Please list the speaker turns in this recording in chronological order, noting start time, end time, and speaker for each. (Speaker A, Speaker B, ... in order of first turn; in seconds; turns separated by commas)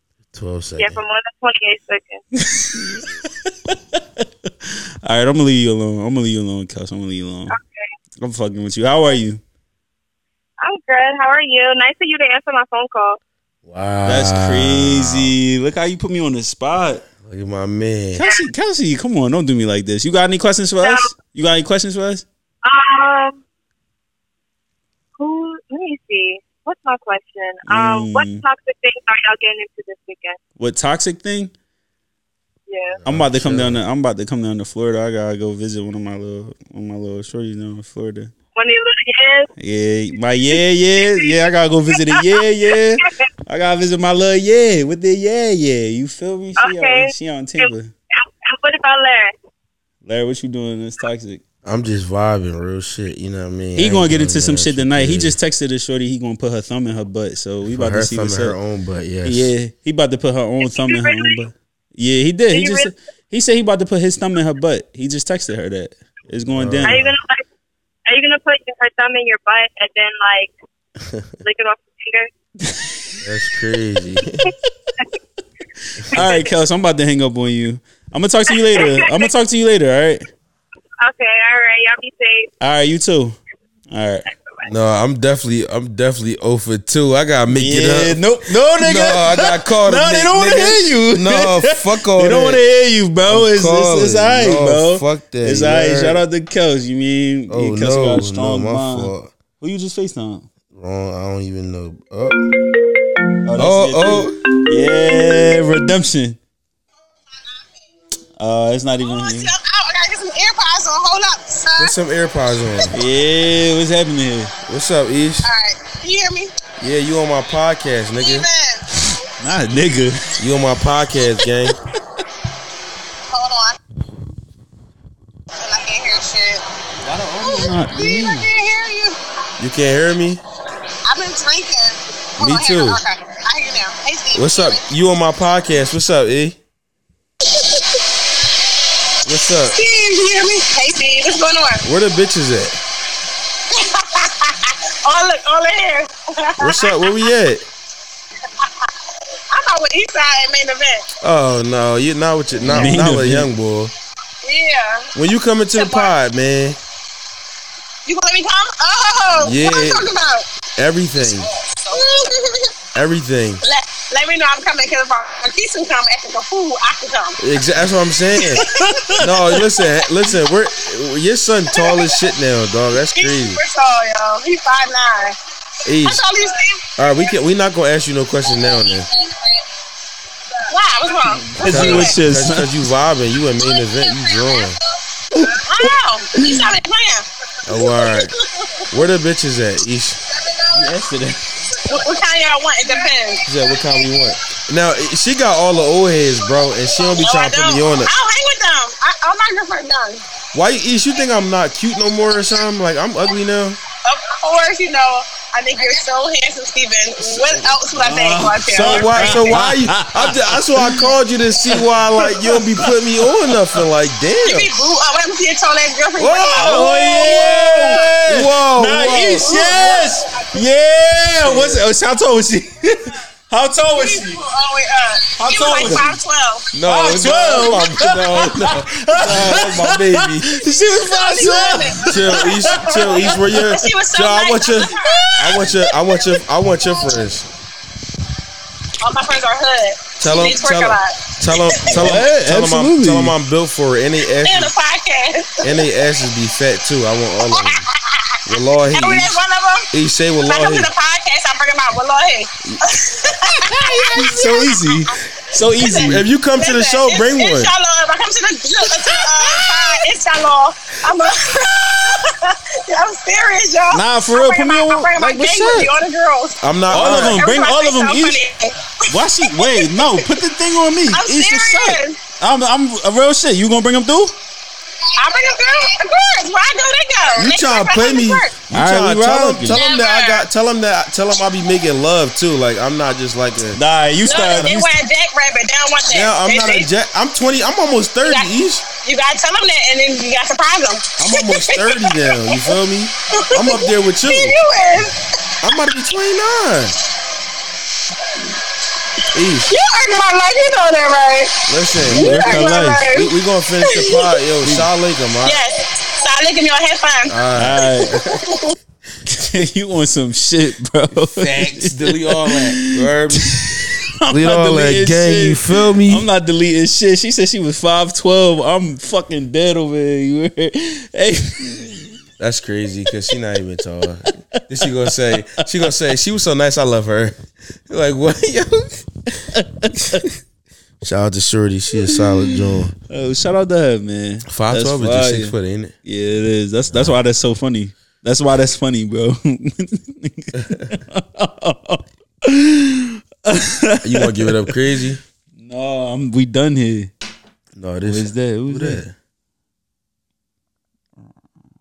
Speaker A: 0.3-1.0, Speaker B: 0.8-2.2, Speaker C: 2.4-7.5, Speaker B: 7.5-7.9, Speaker C: 8.2-9.4, Speaker B: 10.6-13.2, Speaker A: 13.6-15.3, Speaker C: 14.1-17.0, Speaker A: 17.2-18.2, Speaker C: 18.1-22.2, Speaker B: 20.8-21.1, Speaker B: 22.6-23.4, Speaker B: 25.2-30.4, Speaker C: 27.7-28.4, Speaker C: 30.6-31.5, Speaker B: 32.7-33.0, Speaker A: 33.0-33.8, Speaker C: 33.0-38.3, Speaker B: 38.5-39.5, Speaker C: 39.6-47.9, Speaker B: 41.1-41.4, Speaker B: 42.1-42.4, Speaker B: 46.6-49.3, Speaker C: 50.0-51.4, Speaker A: 51.6-55.4, Speaker C: 53.8-58.6, Speaker A: 57.7-59.5, Speaker C: 59.2-67.0, Speaker B: 60.6-61.4, Speaker B: 62.5-62.9, Speaker A: 66.5-67.1, Speaker B: 66.8-67.4, Speaker B: 68.1-70.5, Speaker A: 71.0-71.3, Speaker B: 71.4-72.3, Speaker A: 73.2-74.5, Speaker C: 76.1-80.3, Speaker B: 76.1-76.5, Speaker B: 78.7-79.2, Speaker B: 81.0-82.5, Speaker C: 82.6-83.4, Speaker C: 83.9-84.3, Speaker B: 84.3-84.7, Speaker A: 84.7-88.2, Speaker C: 87.5-100.5, Speaker A: 88.8-92.6, Speaker A: 93.2-96.2, Speaker A: 97.5-99.3, Speaker A: 100.7-102.4, Speaker C: 103.4-106.4, Speaker A: 103.5-104.4, Speaker C: 108.4-109.5, Speaker D: 109.0-111.9, Speaker A: 111.8-113.0, Speaker C: 112.9-114.5, Speaker A: 114.7-115.5, Speaker D: 115.4-116.5, Speaker A: 116.8-118.5, Speaker D: 118.2-118.9, Speaker C: 119.4-120.3, Speaker A: 120.4-121.8, Speaker D: 123.3-123.8, Speaker D: 125.5-126.6, Speaker C: 127.0-128.5, Speaker D: 127.4-129.2, Speaker A: 129.6-130.4, Speaker D: 131.1-134.8, Speaker A: 132.4-133.0, Speaker A: 134.3-136.6, Speaker A: 139.2-139.8, Speaker D: 139.7-141.8, Speaker A: 141.8-142.8, Speaker D: 143.7-147.2, Speaker A: 146.6-147.7, Speaker D: 149.5-151.1, Speaker A: 151.2-153.9, Speaker C: 152.6-153.5, Speaker D: 154.4-155.1, Speaker A: 155.1-156.8, Speaker D: 155.7-156.1, Speaker D: 158.1-160.5, Speaker A: 159.4-160.1, Speaker A: 160.8-161.5, Speaker D: 161.2-162.7, Speaker A: 162.9-163.6, Speaker D: 163.6-167.4, Speaker A: 167.4-173.6, Speaker C: 168.5-169.6, Speaker D: 171.7-172.1, Speaker D: 173.0-175.4, Speaker A: 175.8-176.2, Speaker D: 176.0-177.3, Speaker A: 177.0-179.1, Speaker D: 178.9-179.5, Speaker D: 180.7-182.2, Speaker C: 181.4-182.7, Speaker A: 181.6-184.8, Speaker C: 185.4-185.8, Speaker D: 185.7-188.3, Speaker A: 187.7-188.3, Speaker A: 188.9-190.2, Speaker C: 190.7-191.7, Speaker D: 191.8-193.4, Speaker A: 193.4-198.1, Speaker D: 196.9-200.2, Speaker A: 200.5-203.8, Speaker D: 204.1-209.4, Speaker C: 208.0-211.1, Speaker A: 208.7-214.7, Speaker C: 211.7-212.9, Speaker D: 214.4-218.0, Speaker A: 216.2-219.8, Speaker C: 216.6-224.4, Speaker D: 219.3-220.2, Speaker A: 221.4-221.8, Speaker D: 223.9-226.6, Speaker C: 225.3-226.2, Speaker A: 226.7-230.6, Speaker C: 226.8-233.7, Speaker D: 230.7-235.3, Speaker A: 232.1-237.4, Speaker C: 234.9-235.8, Speaker D: 239.0-241.7, Speaker A: 240.2-244.7, Speaker C: 241.8-243.3, Speaker D: 244.4-245.8, Speaker A: 245.6-247.8, Speaker D: 247.4-248.2, Speaker A: 248.4-249.3, Speaker D: 248.9-249.9, Speaker A: 249.9-250.9, Speaker D: 250.4-255.1, Speaker C: 253.6-256.2, Speaker D: 255.7-268.7, Speaker A: 255.8-257.7, Speaker C: 263.9-265.9, Speaker A: 266.6-267.5, Speaker C: 266.9-268.4, Speaker C: 269.1-274.3, Speaker D: 269.5-270.0, Speaker D: 271.1-272.2, Speaker D: 275.2-278.6, Speaker A: 277.4-283.8, Speaker C: 278.7-279.8, Speaker D: 279.7-280.4, Speaker C: 283.7-284.9, Speaker D: 284.2-286.9, Speaker A: 286.1-288.8, Speaker D: 288.2-288.5, Speaker D: 289.0-292.7, Speaker A: 291.2-294.6, Speaker D: 293.4-295.2, Speaker A: 295.6-296.9, Speaker A: 299.3-299.7, Speaker D: 299.7-303.3, Speaker A: 301.7-302.5, Speaker C: 302.1-303.1, Speaker A: 303.0-305.6, Speaker D: 303.8-304.3, Speaker D: 305.4-307.4, Speaker A: 307.3-308.3, Speaker C: 307.5-308.2, Speaker C: 309.2-322.1, Speaker A: 311.1-316.3, Speaker A: 322.4-329.0, Speaker C: 324.8-325.9, Speaker C: 329.5-330.2, Speaker A: 331.0-332.9, Speaker C: 332.0-344.7, Speaker A: 334.5-335.9, Speaker A: 336.9-337.1, Speaker A: 340.6-340.8, Speaker A: 344.0-345.2, Speaker C: 345.6-347.1, Speaker A: 347.7-349.1, Speaker C: 348.0-349.0